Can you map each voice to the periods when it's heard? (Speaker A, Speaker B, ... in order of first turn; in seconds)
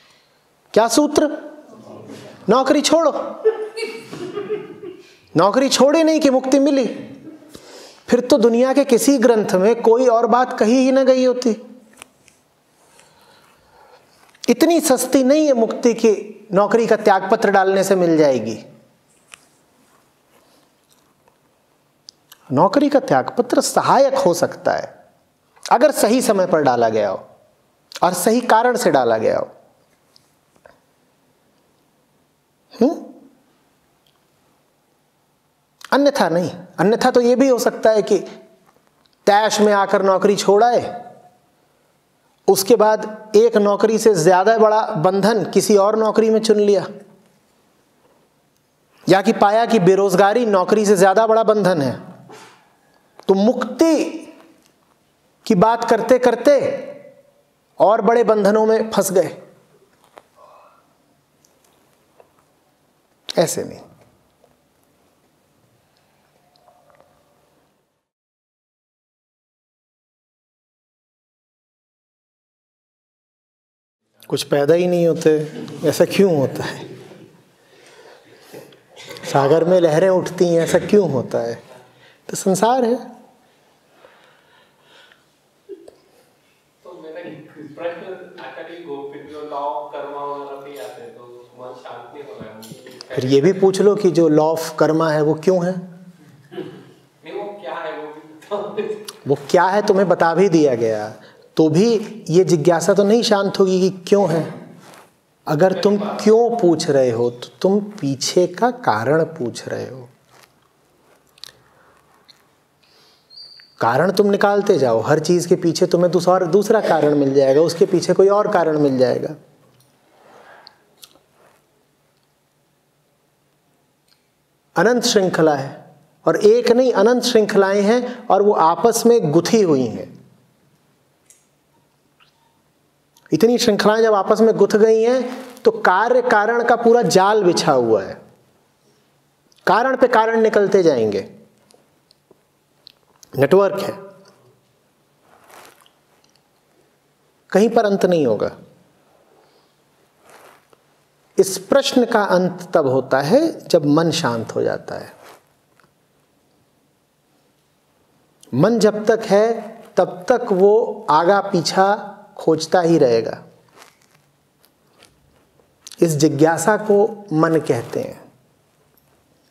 Speaker A: 0.7-1.5, 2.5-3.5, 5.3-7.0, 8.1-11.6, 14.5-18.6, 22.5-24.9, 25.7-27.2, 28.0-29.5, 32.8-33.1, 35.9-38.3, 39.2-40.9, 42.5-46.9, 49.1-52.0, 53.3-54.3, 55.4-57.0, 57.8-59.4, 63.4-63.8, 74.3-76.9, 79.2-81.6, 82.3-83.0, 93.1-95.9, 99.2-104.5, 105.5-110.1, 113.8-119.3, 124.8-130.1, 133.3-138.2, 139.7-141.2, 143.3-144.0, 147.5-148.5, 151.4-155.1, 158.6-163.4, 166.0-168.2
Speaker B: 86.8-93.7, 97.2-99.1, 105.7-106.3